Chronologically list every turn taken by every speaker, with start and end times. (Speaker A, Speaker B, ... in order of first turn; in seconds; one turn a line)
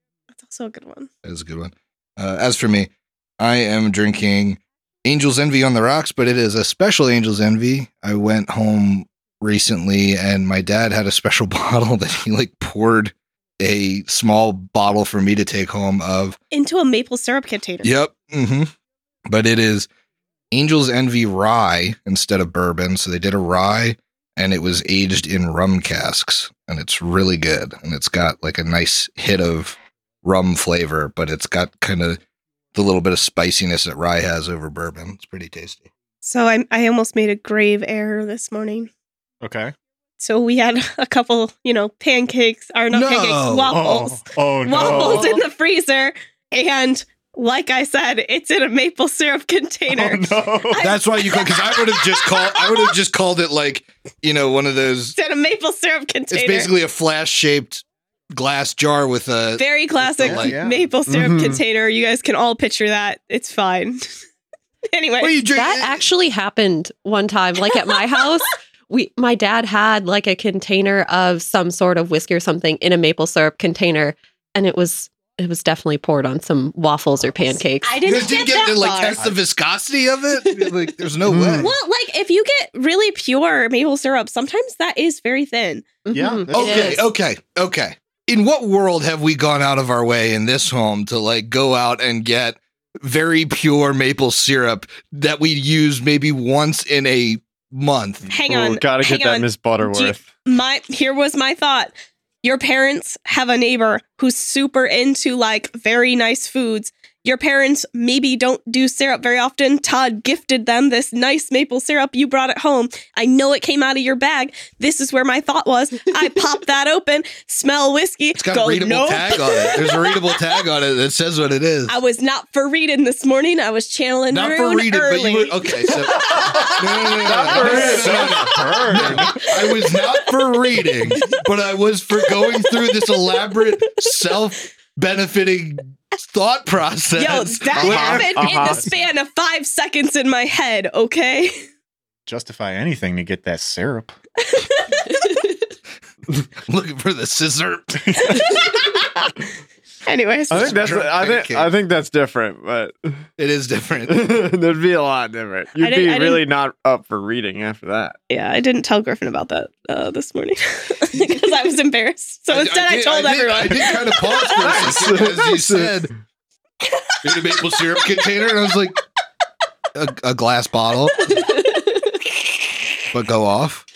Speaker A: 0.3-1.1
Speaker B: 1.2-16.4
Speaker A: 16.5-17.9
Speaker B: 17.8-18.7
Speaker B: 19.3-19.9
Speaker B: 20.5-32.2
Speaker B: 32.7-35.9
Speaker A: 36.2-38.9
Speaker C: 39.4-39.7
Speaker A: 40.2-53.0
Speaker B: 42.9-43.8
Speaker C: 43.7-45.4
Speaker D: 44.8-45.3
Speaker C: 49.9-50.9
Speaker B: 50.8-55.2
Speaker A: 55.2-56.7
Speaker B: 56.3-59.7
Speaker A: 59.6-64.1
Speaker B: 60.2-60.6
Speaker C: 60.2-60.9
Speaker E: 61.1-61.6
Speaker A: 64.9-65.4
Speaker B: 65.2-66.0
Speaker D: 65.5-78.1
Speaker A: 77.5-79.3
Speaker B: 78.0-81.7
Speaker E: 81.3-81.7
Speaker A: 81.6-85.9
Speaker D: 86.1-87.0
Speaker C: 86.1-87.0
Speaker B: 86.5-98.2
Speaker A: 98.3-120.4
Speaker E: 98.5-100.2
Speaker B: 118.3-122.0
Speaker A: 121.9-126.7
Speaker B: 124.3-138.8
Speaker E: 127.2-129.4
Speaker C: 127.5-129.2
Speaker A: 137.2-141.7
Speaker C: 137.8-138.7
Speaker E: 138.0-138.9
Speaker C: 142.3-144.2
Speaker A: 144.5-145.1
Speaker B: 146.6-148.4
Speaker A: 148.3-149.0
Speaker A: 150.1-150.8
Speaker E: 150.5-153.2
Speaker B: 150.5-151.7
Speaker B: 153.4-154.4
Speaker E: 154.1-158.2
Speaker A: 155.8-156.4
Speaker A: 158.3-164.7
Speaker B: 162.5-166.1
Speaker E: 164.6-165.9
Speaker B: 167.2-169.0
Speaker B: 169.9-171.3
Speaker B: 173.1-173.9